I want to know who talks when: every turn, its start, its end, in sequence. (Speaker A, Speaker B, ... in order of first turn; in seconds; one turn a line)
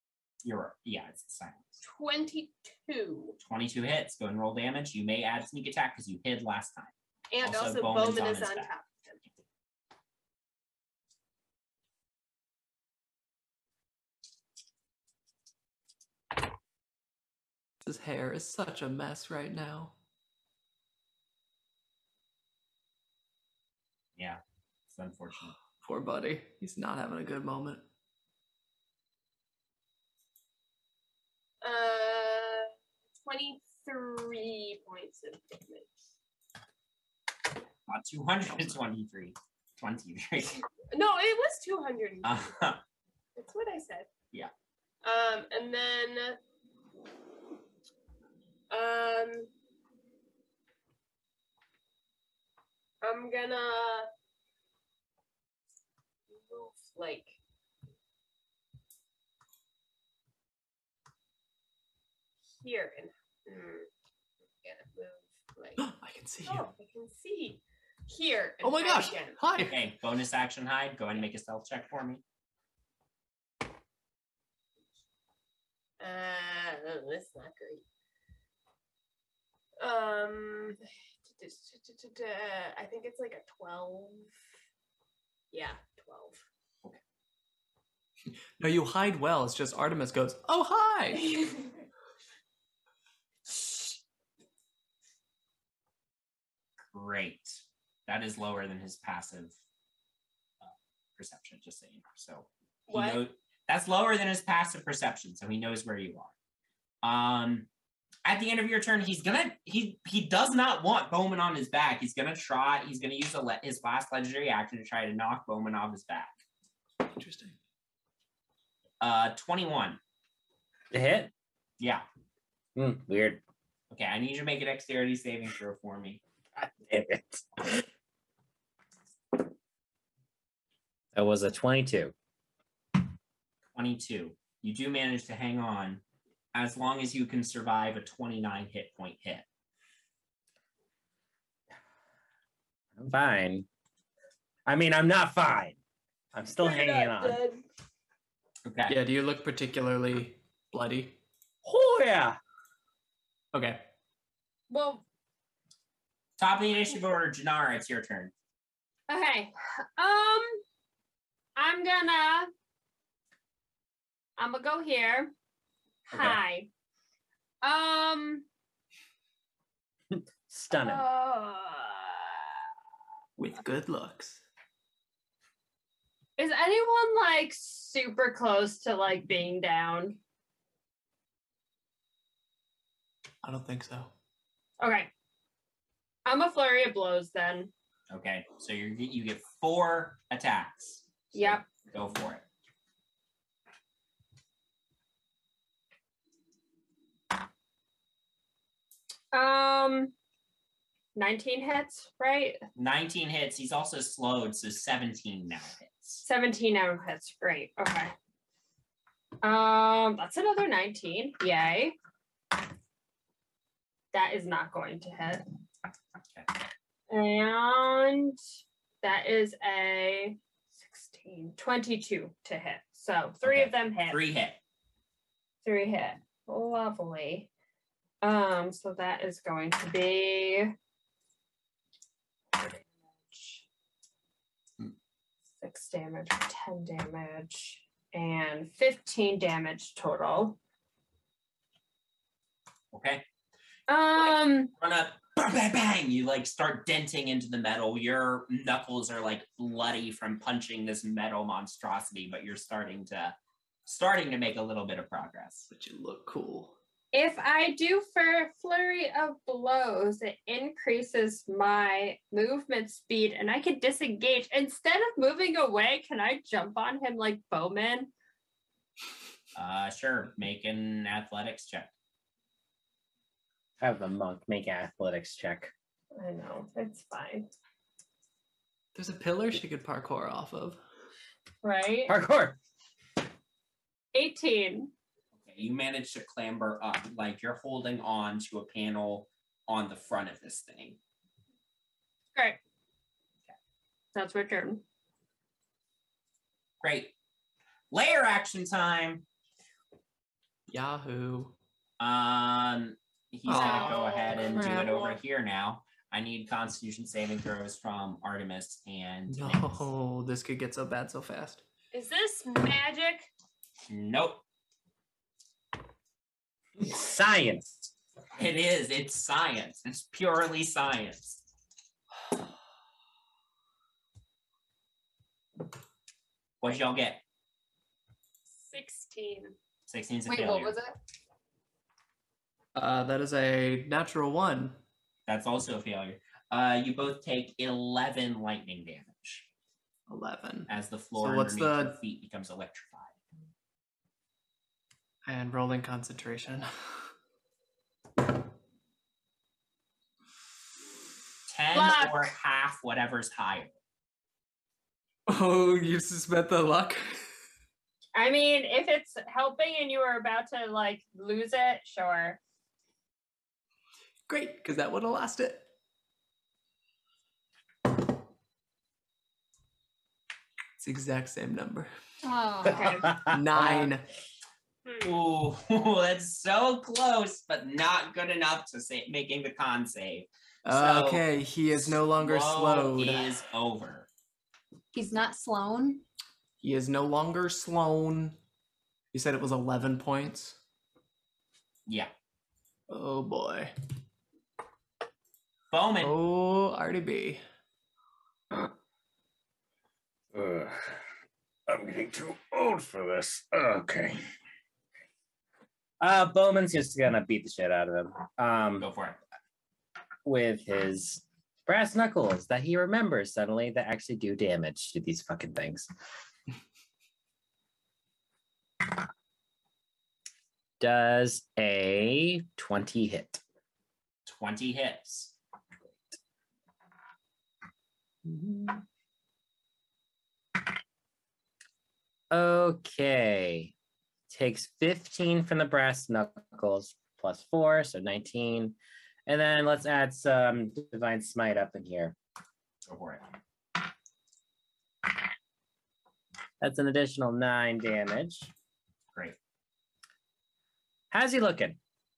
Speaker A: 0.4-1.8
Speaker B: 1.8-3.4
Speaker A: 3.4-8.7
Speaker B: 7.3-9.2
Speaker C: 17.8-19.9
Speaker A: 24.2-25.5
Speaker C: 25.8-27.8
Speaker B: 31.6-35.9
Speaker A: 37.9-40.6
Speaker B: 40.9-42.7
Speaker A: 42.2-42.8
Speaker B: 43.4-44.1
Speaker B: 45.0-46.4
Speaker B: 48.7-49.5
Speaker B: 53.0-54.1
Speaker B: 56.3-57.4
Speaker B: 62.6-63.9
Speaker B: 64.6-65.8
Speaker C: 65.8-66.7
Speaker B: 66.4-69.4
Speaker C: 68.6-69.8
Speaker A: 69.6-72.2
Speaker B: 76.0-77.8
Speaker B: 79.8-84.3
Speaker B: 85.5-86.4
Speaker C: 88.6-91.3
Speaker B: 91.1-91.8
Speaker B: 93.5-94.0
Speaker A: 96.9-99.5
Speaker A: 100.6-106.3
Speaker B: 102.9-103.2
Speaker A: 107.0-107.7
Speaker A: 108.2-116.3
Speaker C: 117.0-117.5
Speaker A: 119.0-120.0
Speaker D: 120.9-121.3
Speaker D: 122.8-123.4
Speaker A: 123.9-126.2
Speaker D: 126.6-127.8
Speaker D: 131.1-132.1
Speaker A: 133.7-136.0
Speaker A: 136.5-139.4
Speaker D: 143.0-143.7
Speaker D: 144.7-145.8
Speaker D: 146.3-147.4
Speaker B: 146.6-147.6
Speaker A: 148.7-148.9
Speaker C: 148.9-151.2
Speaker D: 151.6-152.4
Speaker C: 153.5-153.8
Speaker E: 154.7-155.0
Speaker A: 156.4-158.3
Speaker E: 159.1-160.6
Speaker E: 161.6-162.5
Speaker E: 164.4-165.3
Speaker E: 166.1-166.7
Speaker E: 167.6-168.4
Speaker D: 170.5-171.0
Speaker E: 170.7-172.3
Speaker C: 173.4-174.4
Speaker E: 176.4-180.2
Speaker C: 183.4-184.1
Speaker E: 184.8-185.1
Speaker E: 186.2-187.7
Speaker A: 188.1-192.4
Speaker E: 191.3-191.7
Speaker E: 199.3-200.1
Speaker E: 201.1-202.6
Speaker A: 202.8-206.2
Speaker E: 206.2-208.1
Speaker E: 209.4-211.9
Speaker E: 214.1-215.4
Speaker E: 217.1-218.4
Speaker E: 219.0-224.2
Speaker A: 223.4-224.6
Speaker E: 225.6-227.5
Speaker E: 228.2-230.7
Speaker E: 232.6-233.6
Speaker E: 235.6-240.6
Speaker A: 242.9-243.2
Speaker E: 243.9-244.7
Speaker A: 244.8-255.7
Speaker C: 255.7-256.7
Speaker E: 257.1-268.1
Speaker A: 269.5-271.9
Speaker D: 273.8-275.7
Speaker E: 276.1-277.5
Speaker C: 278.9-280.8
Speaker E: 281.6-282.1
Speaker D: 282.1-282.6
Speaker E: 284.1-284.9
Speaker A: 285.4-291.0
Speaker E: 294.1-294.8
Speaker A: 296.8-297.1
Speaker A: 297.9-299.2
Speaker C: 300.7-301.5
Speaker A: 302.0-309.9
Speaker C: 303.4-304.0
Speaker B: 303.5-305.2
Speaker C: 304.5-304.9
Speaker C: 309.3-311.6
Speaker B: 311.9-313.3
Speaker A: 313.9-314.4
Speaker D: 316.8-317.9
Speaker A: 318.3-321.4
Speaker A: 326.6-327.2
Speaker B: 328.5-329.6
Speaker A: 329.9-330.7
Speaker F: 330.3-330.9
Speaker C: 332.7-334.8
Speaker A: 335.3-339.4
Speaker C: 340.1-342.0
Speaker A: 340.7-343.1
Speaker C: 345.2-346.7
Speaker A: 351.5-353.7
Speaker E: 351.7-352.3
Speaker C: 355.3-357.2
Speaker E: 358.1-362.4
Speaker C: 364.3-365.7
Speaker C: 370.8-371.9
Speaker F: 372.2-373.1
Speaker D: 372.8-373.7
Speaker C: 373.3-374.0
Speaker A: 375.0-384.1
Speaker C: 380.6-383.4
Speaker F: 384.9-386.0
Speaker C: 386.6-388.4
Speaker C: 389.1-390.6
Speaker C: 392.9-393.7
Speaker A: 395.7-396.1
Speaker C: 396.0-397.4
Speaker G: 400.3-400.9
Speaker G: 401.7-404.1
Speaker D: 406.0-408.9
Speaker A: 408.8-409.2
Speaker D: 410.2-415.9
Speaker D: 420.8-423.4
Speaker A: 424.2-425.3
Speaker D: 428.2-428.8
Speaker D: 432.3-433.7
Speaker D: 434.3-438.8
Speaker D: 439.3-442.1
Speaker A: 442.9-443.3
Speaker D: 446.6-448.5
Speaker D: 451.1-451.8